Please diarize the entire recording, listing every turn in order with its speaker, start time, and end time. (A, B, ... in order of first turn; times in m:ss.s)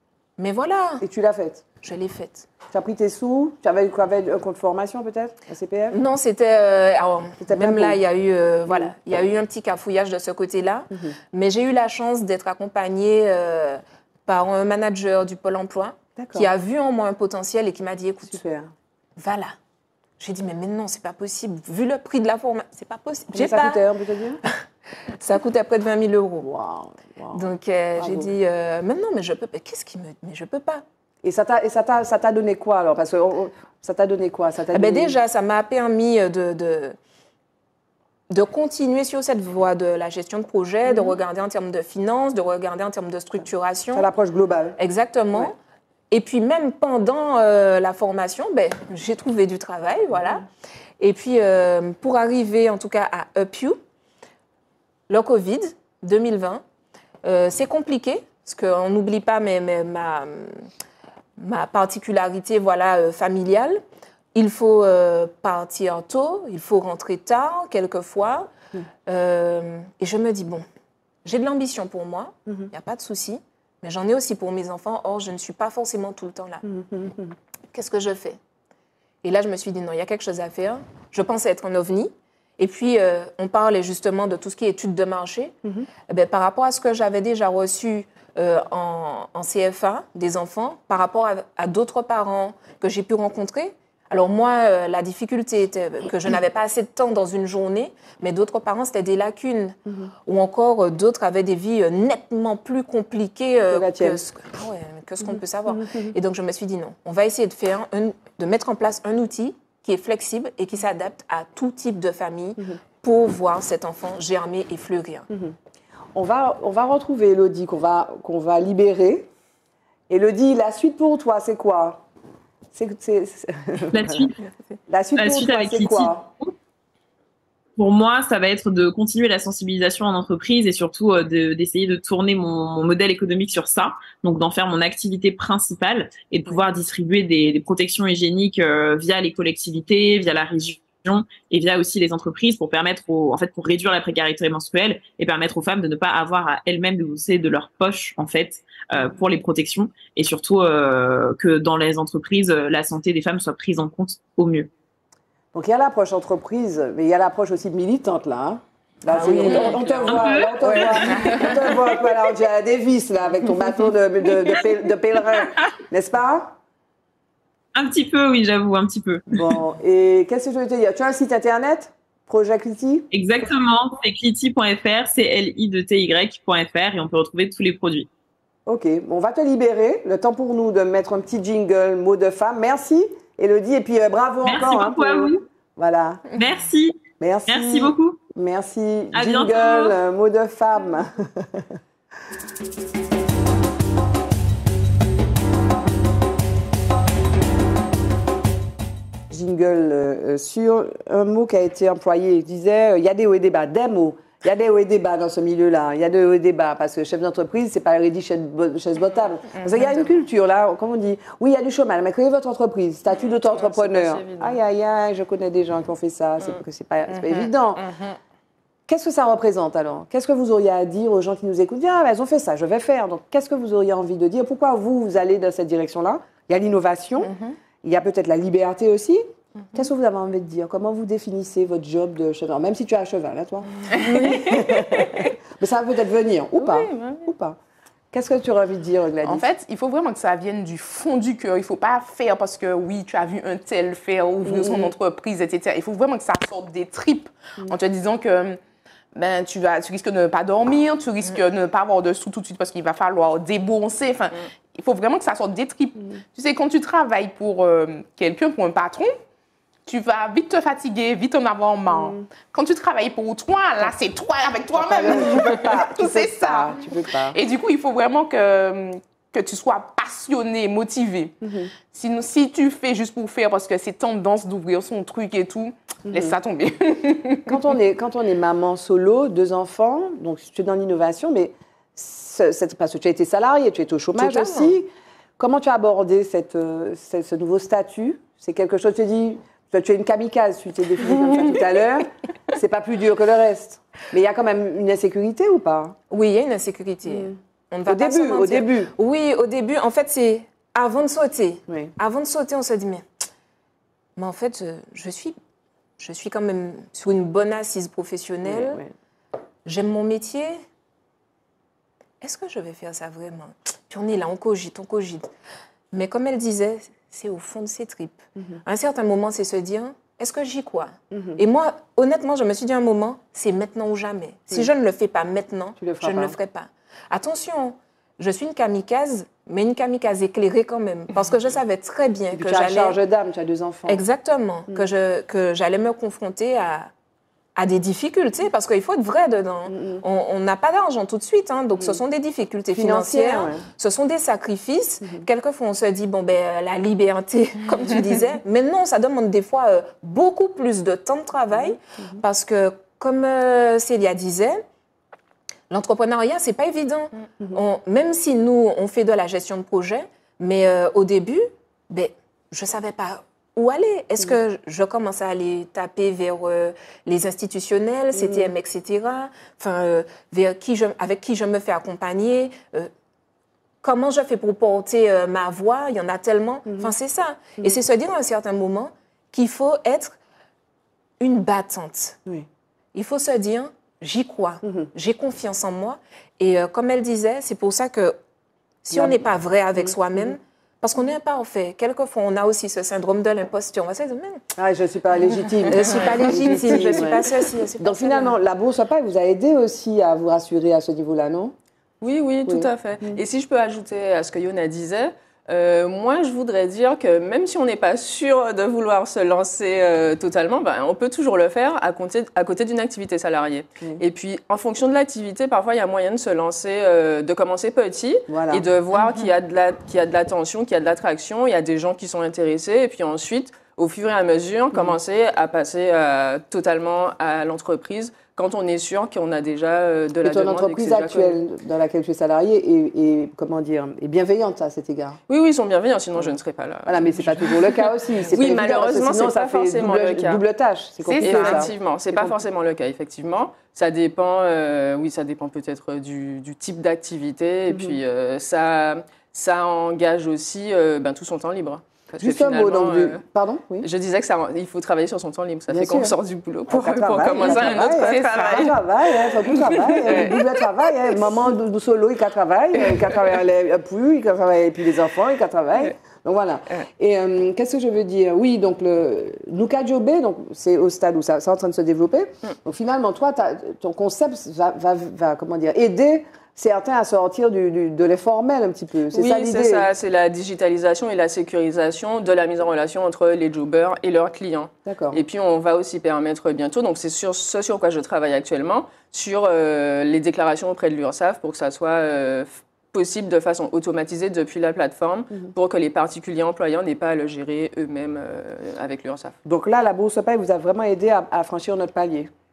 0:00.4-0:01.0 A
0:01.0-0:01.6 B
0:01.8-0:02.5 A
0:02.7-0:06.0 B
0:05.9-0:18.4 A
0:07.4-0:08.0 B
0:08.7-0:08.9 B
0:10.9-0:11.2 B
0:16.2-0:16.5 B
0:18.3-0:18.7 B
0:19.2-0:19.5 A
0:20.2-0:23.8 A
0:23.3-0:24.4 B
0:25.1-0:26.5 A
0:26.4-0:27.4 B
0:27.3-0:30.8 A
0:28.0-0:28.3 B
0:31.2-0:35.2 B
0:34.7-0:37.0 A
0:38.3-0:44.1 A
0:40.9-0:41.1 B
0:43.9-0:44.8 B
0:44.8-0:45.6 A
0:46.1-0:50.4 A
0:51.0-0:53.8 A
0:55.1-0:56.6 A
0:57.2-1:00.6 A
1:01.4-1:03.8 A
1:04.3-1:08.5 A
1:09.1-1:10.6 A
1:11.2-1:16.6 A
1:16.6-1:17.4 B
1:17.7-1:18.4 A
1:19.2-1:25.6 A
1:26.1-1:55.3 A
1:39.9-1:40.1 B
1:43.7-1:44.2 B
1:45.3-1:46.2 B
1:55.3-1:55.6 B
1:56.2-1:59.3 B
2:00.1-2:02.0 B
2:02.7-2:04.3 B
2:03.9-2:04.4 C
2:04.9-2:06.3 B
2:05.2-2:06.5 C
2:07.8-2:34.7 C
2:35.5-2:46.6 B
2:39.2-2:39.7 A
2:39.3-2:40.2 D
2:39.4-2:41.5 C
2:41.2-2:41.5 E
2:47.7-2:49.4 C
2:49.3-2:53.1 B
2:53.1-2:58.1 C
2:58.7-3:06.3 B
3:04.4-3:05.4 C
3:06.3-3:08.2 C
3:07.2-3:11.8 B
3:09.1-3:10.0 C
3:19.3-3:37.8 B
3:29.6-3:29.9 E
3:33.4-3:34.6 D
3:37.1-3:37.5 E
3:38.9-3:49.2 B
3:47.2-3:47.6 E
3:49.7-3:57.6 B
3:54.0-3:55.2 D
3:56.6-3:57.3 D
3:58.1-3:59.4 B
3:59.2-4:08.6 E
4:04.4-4:04.9 B
4:09.2-4:19.1 E
4:19.9-4:26.8 E
4:21.9-4:22.2 B
4:24.7-4:27.4 B
4:27.3-4:31.3 E
4:31.4-4:31.7 B
4:31.9-4:37.5 E
4:36.1-4:36.4 B
4:37.5-4:56.0 B
4:44.2-4:44.8 A
4:56.1-5:03.0 A
4:57.1-4:58.9 B
5:04.2-5:05.4 A
5:06.0-5:08.8 A
5:08.4-5:08.9 B
5:09.6-5:10.6 A
5:12.2-5:15.3 A
5:15.9-5:33.0 A
5:21.1-5:21.4 B
5:25.8-5:26.4 B
5:32.3-5:34.0 B
5:33.9-5:36.9 A
5:37.6-5:54.6 A
5:39.7-5:40.0 B
5:42.7-5:43.6 B
5:55.7-6:12.9 A
6:08.1-6:08.5 B
6:13.8-6:20.2 A
6:16.7-6:16.9 B
6:21.2-6:22.2 A
6:23.0-6:28.2 A
6:24.6-6:24.9 B
6:28.8-6:34.4 A
6:28.9-6:29.2 B
6:29.8-6:30.3 B
6:34.6-6:37.3 B
6:35.7-6:38.3 A
6:37.8-6:41.5 B
6:42.0-7:11.4 D
6:42.5-6:43.2 B
6:58.3-6:58.6 B
7:10.2-7:15.2 B
7:15.3-7:20.4 D
7:16.9-7:22.4 B
7:21.1-7:33.2 D
7:21.1-7:21.6 E
7:27.7-7:28.0 B
7:32.2-7:33.9 B
7:33.8-7:41.2 D
7:35.7-7:36.1 B
7:36.7-7:59.9 B
7:37.4-7:38.7 E
7:42.8-7:43.2 D
7:59.1-8:19.4 D
8:04.9-8:05.2 B
8:19.4-8:22.3 B